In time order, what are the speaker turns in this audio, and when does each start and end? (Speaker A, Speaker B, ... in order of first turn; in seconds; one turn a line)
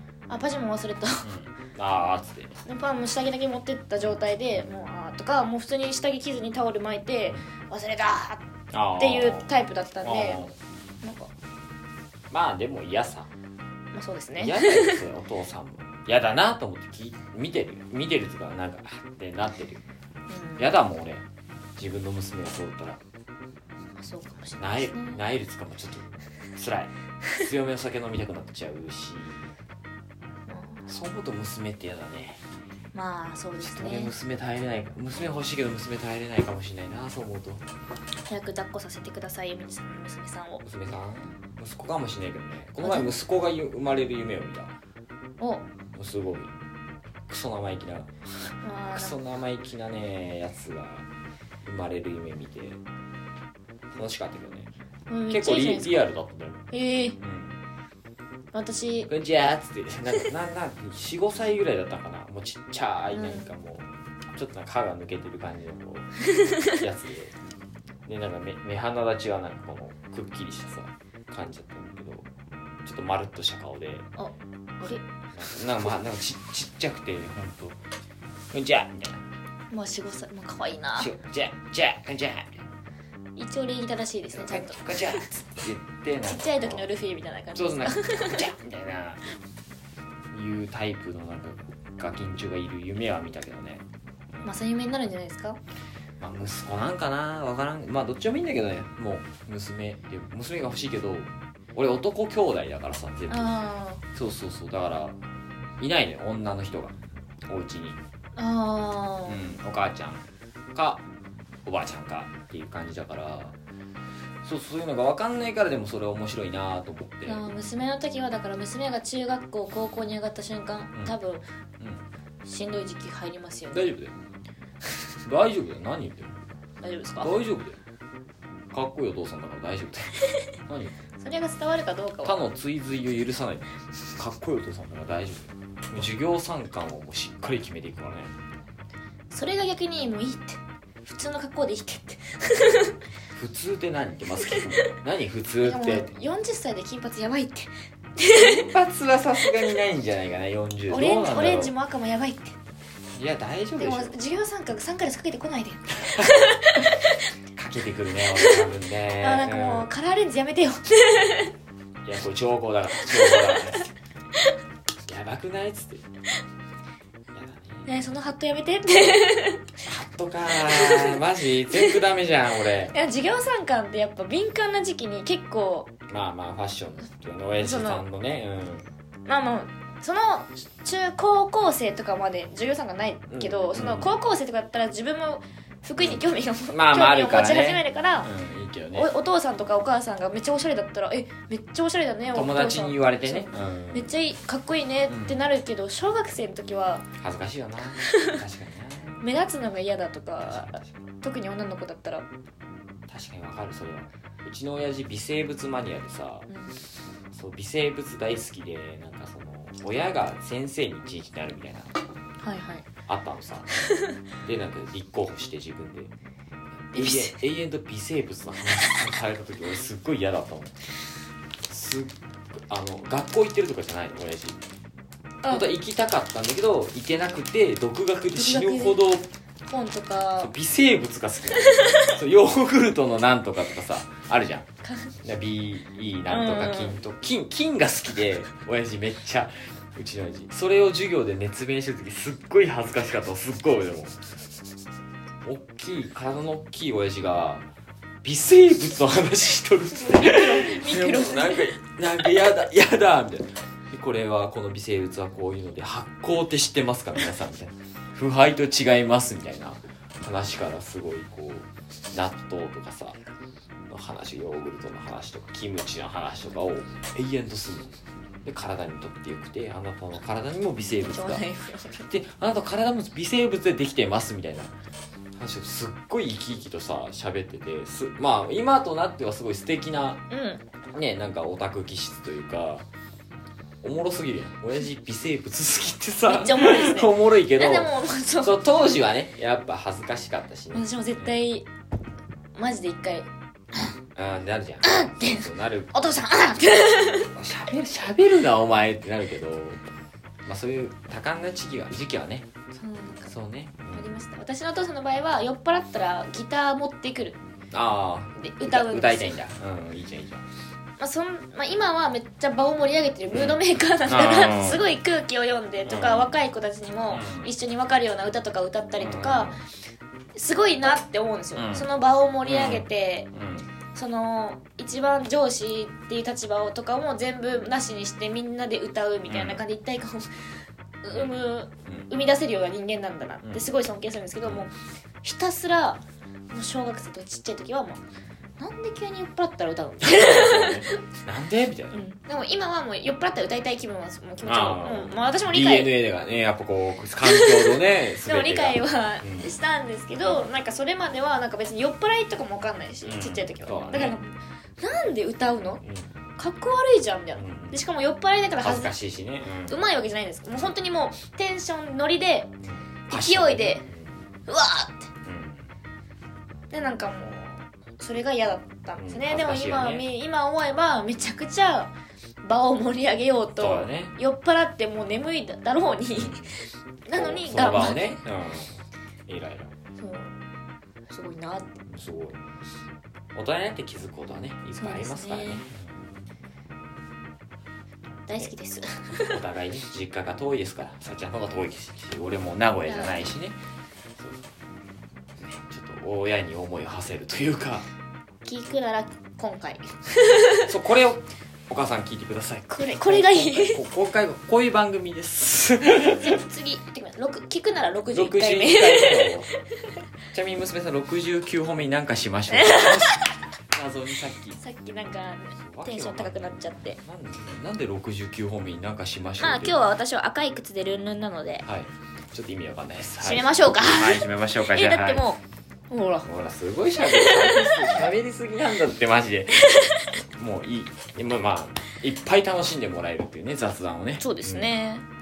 Speaker A: 0.3-1.3
Speaker B: 1.2-2.5
Speaker A: 2.6-8.4
Speaker B: 8.7-9.4
Speaker A: 8.9-10.4
Speaker B: 10.0-10.5
Speaker A: 11.0-11.3
Speaker B: 12.3-13.3
Speaker A: 13.9-15.0
Speaker B: 14.4-19.8
Speaker A: 20.3-20.7
Speaker B: 20.6-21.2
Speaker B: 21.8-23.0
Speaker A: 23.9-25.2
Speaker B: 24.6-29.5
Speaker A: 30.5-30.8
Speaker B: 30.9-32.4
Speaker A: 32.9-34.1
Speaker B: 33.6-37.6
Speaker A: 38.3-40.6
Speaker B: 40.6-44.8
Speaker A: 42.8-43.1
Speaker A: 45.4-45.6
Speaker B: 45.9-46.5
Speaker B: 47.3-48.1
Speaker A: 48.6-49.2
Speaker B: 48.9-51.0
Speaker B: 51.6-52.8
Speaker B: 53.9-54.7
Speaker A: 55.1-56.1
Speaker B: 55.3-56.6
Speaker A: 56.7-57.2
Speaker B: 57.2-57.6
Speaker A: 58.5-59.1
Speaker B: 59.1-67.3
Speaker A: 63.1-63.5
Speaker A: 66.3-66.8
Speaker B: 68.0-72.2
Speaker B: 72.8-74.1
Speaker A: 74.2-75.0
Speaker B: 75.3-77.8
Speaker B: 78.5-79.2
Speaker A: 79.7-81.1
Speaker B: 81.0-82.6
Speaker A: 83.4-85.3
Speaker B: 84.3-86.8
Speaker A: 86.2-88.5
Speaker B: 87.5-89.2
Speaker B: 90.3-94.5
Speaker A: 94.4-95.6
Speaker B: 96.2-103.5
Speaker A: 103.3-104.0
Speaker B: 104.1-105.2
Speaker B: 105.8-107.0
Speaker B: 107.5-108.0
Speaker A: 108.3-109.5
Speaker B: 109.2-111.0
Speaker B: 111.6-113.5
Speaker B: 114.4-117.4
Speaker A: 117.2-121.4
Speaker B: 121.8-122.0
Speaker A: 122.5-123.9
Speaker B: 123.7-124.2
Speaker B: 125.2-126.4
Speaker A: 126.8-127.3
Speaker B: 127.2-127.8
Speaker B: 128.7-130.9
Speaker A: 131.2-132.4
Speaker B: 132.2-138.3
Speaker A: 139.3-143.0
Speaker B: 143.3-146.1
Speaker A: 144.4-144.9
Speaker A: 145.6-148.7
Speaker B: 148.3-151.7
Speaker A: 150.9-152.6
Speaker B: 153.1-154.2
Speaker A: 153.8-157.2
Speaker B: 156.1-156.5
Speaker B: 157.6-159.9
Speaker A: 158.3-161.5
Speaker B: 162.0-163.9
Speaker A: 163.1-163.6
Speaker B: 165.1-166.1
Speaker B: 167.3-167.9
Speaker A: 167.8-169.7
Speaker B: 169.8-172.9
Speaker A: 170.6-171.2
Speaker A: 172.9-175.9
Speaker B: 176.1-178.9
Speaker A: 177.6-178.0
Speaker A: 179.2-188.3
Speaker B: 183.3-184.1
Speaker B: 186.0-189.1
Speaker A: 188.9-197.1
Speaker B: 192.3-194.1
Speaker B: 195.1-195.4
Speaker B: 197.2-199.3
Speaker A: 198.1-198.4
Speaker A: 199.2-202.3
Speaker B: 200.4-201.0
Speaker B: 203.1-206.5
Speaker A: 206.5-206.8
Speaker B: 207.3-212.0
Speaker A: 212.4-212.8
Speaker B: 213.1-213.7
Speaker B: 214.4-216.1
Speaker B: 216.9-220.8
Speaker A: 216.9-217.4
Speaker B: 221.7-224.6
Speaker A: 225.4-225.7
Speaker B: 225.5-229.3
Speaker A: 228.3-229.0
Speaker A: 229.7-230.5
Speaker B: 230.4-234.7
Speaker A: 231.5-232.1
Speaker A: 234.8-235.1
Speaker B: 235.2-244.2
Speaker A: 236.3-237.0
Speaker B: 245.4-247.7
Speaker B: 248.2-263.2
Speaker A: 249.9-251.8
Speaker B: 263.9-271.4
Speaker A: 271.0-272.1
Speaker B: 272.1-274.7
Speaker B: 275.4-280.2
Speaker A: 280.3-280.6
Speaker B: 280.9-282.9
Speaker B: 283.8-291.4
Speaker A: 286.3-289.0
Speaker A: 290.7-291.7
Speaker A: 292.6-293.3
Speaker B: 294.1-295.9
Speaker A: 294.8-297.3
Speaker B: 297.3-299.8
Speaker B: 300.4-302.5
Speaker A: 302.7-303.4
Speaker B: 303.3-304.1
Speaker A: 303.9-307.4
Speaker B: 307.7-310.4
Speaker A: 308.4-309.4
Speaker A: 311.0-319.6
Speaker B: 313.3-314.8
Speaker B: 315.9-316.4
Speaker B: 317.1-317.5
Speaker B: 319.0-319.6
Speaker A: 320.4-323.3
Speaker B: 321.5-321.9
Speaker B: 322.4-323.7
Speaker A: 323.9-330.3
Speaker B: 329.3-329.6
Speaker A: 331.0-334.7
Speaker B: 331.1-332.1
Speaker A: 335.2-338.0
Speaker A: 338.6-341.0
Speaker B: 340.0-342.0
Speaker A: 341.9-345.9
Speaker B: 344.4-349.5
Speaker A: 347.2-355.8
Speaker B: 353.1-354.1
Speaker A: 356.4-358.9
Speaker B: 357.4-357.8
Speaker B: 358.6-359.8
Speaker A: 359.7-362.5
Speaker B: 362.6-364.1
Speaker A: 363.1-363.9
Speaker A: 364.5-365.1
Speaker B: 365.2-365.7
Speaker A: 366.7-371.9
Speaker B: 369.0-370.1
Speaker A: 372.4-376.4
Speaker B: 373.6-374.1
Speaker B: 376.1-376.6
Speaker A: 377.1-378.2
Speaker B: 377.1-379.7
Speaker A: 380.0-380.4
Speaker A: 381.1-381.8
Speaker B: 381.9-382.4
Speaker B: 383.3-386.1
Speaker A: 384.8-385.6
Speaker A: 388.3-389.4
Speaker B: 389.3-393.6
Speaker A: 392.9-393.3
Speaker B: 394.2-394.4
Speaker B: 395.4-397.8
Speaker A: 398.4-400.7
Speaker B: 400.6-406.4
Speaker A: 402.7-403.8
Speaker A: 406.1-409.4
Speaker B: 408.1-409.5
Speaker B: 410.3-414.6
Speaker A: 412.5-413.3
Speaker A: 414.6-417.0
Speaker B: 415.6-419.8
Speaker A: 419.4-421.6
Speaker B: 421.6-425.2
Speaker A: 423.2-426.3
Speaker B: 426.2-434.7
Speaker A: 427.0-428.1
Speaker A: 429.7-430.0
Speaker A: 434.2-435.0